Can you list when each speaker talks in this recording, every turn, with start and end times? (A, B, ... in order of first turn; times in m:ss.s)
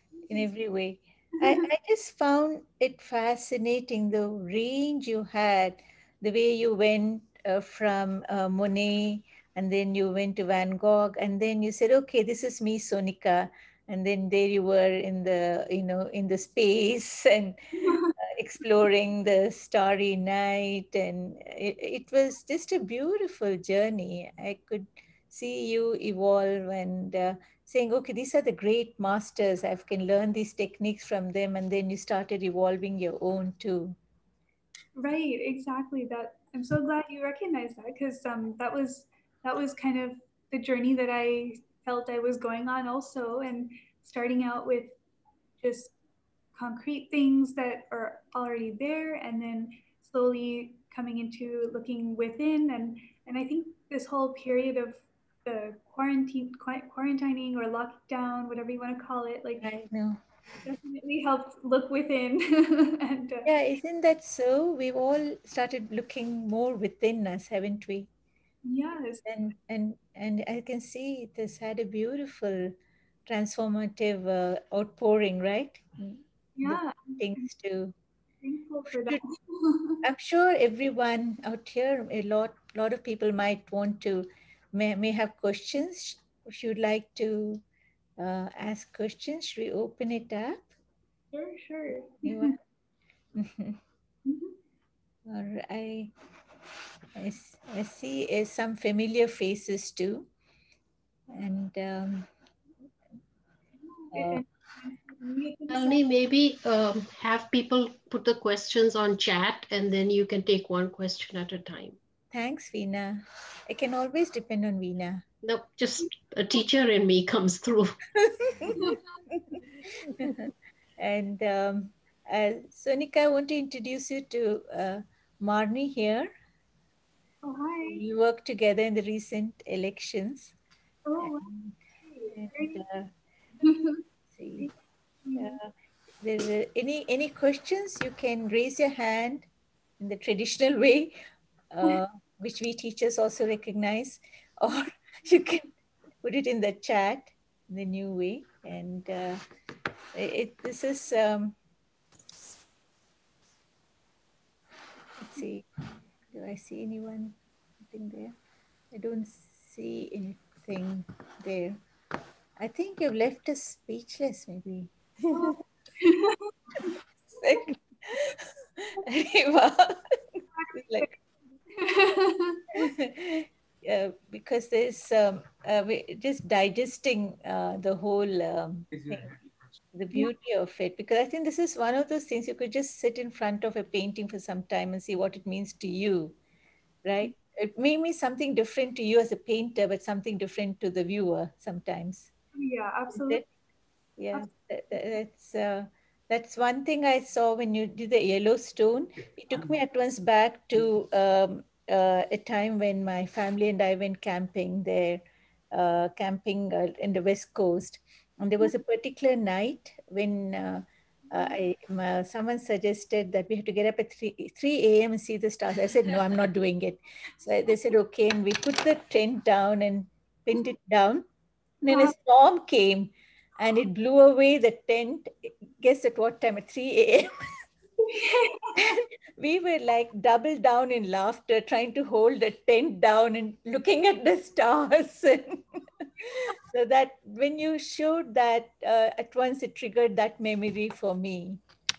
0:00.3-0:34.0 A
0:17.8-0:18.1 B
0:35.0-0:45.0 B
0:45.6-0:45.9 B
0:46.6-0:59.6 B
0:59.6-1:00.2 A
1:00.6-1:03.5 B
1:03.5-1:08.1 A
1:08.7-1:09.2 B
1:09.2-1:12.8 A
1:13.3-1:18.0 A
1:16.6-1:17.5 B
1:18.4-1:20.0 B
1:18.9-1:19.3 A
1:20.0-1:27.6 A
1:28.2-1:30.7 A
1:31.3-1:32.6 B
1:32.2-1:32.6 A
1:33.4-1:33.8 A
1:34.3-1:34.6 B
1:35.3-1:36.1 A
1:37.2-1:40.3 A
1:41.3-1:42.3 A
1:43.8-1:46.0 B
1:44.1-1:44.4 A
1:45.7-1:52.0 C
1:52.3-1:55.2 A
1:55.4-1:58.0 C
1:59.9-2:06.3 A
2:07.4-2:08.0 B
2:07.8-2:10.5 A
2:11.1-2:12.8 B
2:11.2-2:11.8 A
2:12.3-2:13.1 A
2:13.6-2:14.0 B
2:14.3-2:14.7 A
2:14.6-2:15.6 B
2:15.4-2:19.5 A
2:20.0-2:21.2 A
2:21.7-2:29.4 A
2:30.1-2:31.6 A
2:35.2-2:35.7 A
2:36.3-2:37.4 A
2:37.9-2:38.4 A
2:38.9-2:41.8 A
2:42.6-2:44.9 A
2:45.3-2:46.9 B
2:47.4-2:51.1 A
2:50.5-2:51.2 B
2:51.7-2:52.8 B
2:52.8-2:59.3 A
2:59.9-3:06.4 A
3:07.0-3:12.3 A
3:12.6-3:13.5 B
3:13.1-3:13.4 A
3:14.2-3:25.2 A
3:25.7-3:41.3 A
3:41.8-3:47.3 A
3:41.9-3:42.2 B
3:48.0-3:48.8 B
3:48.8-4:01.6 A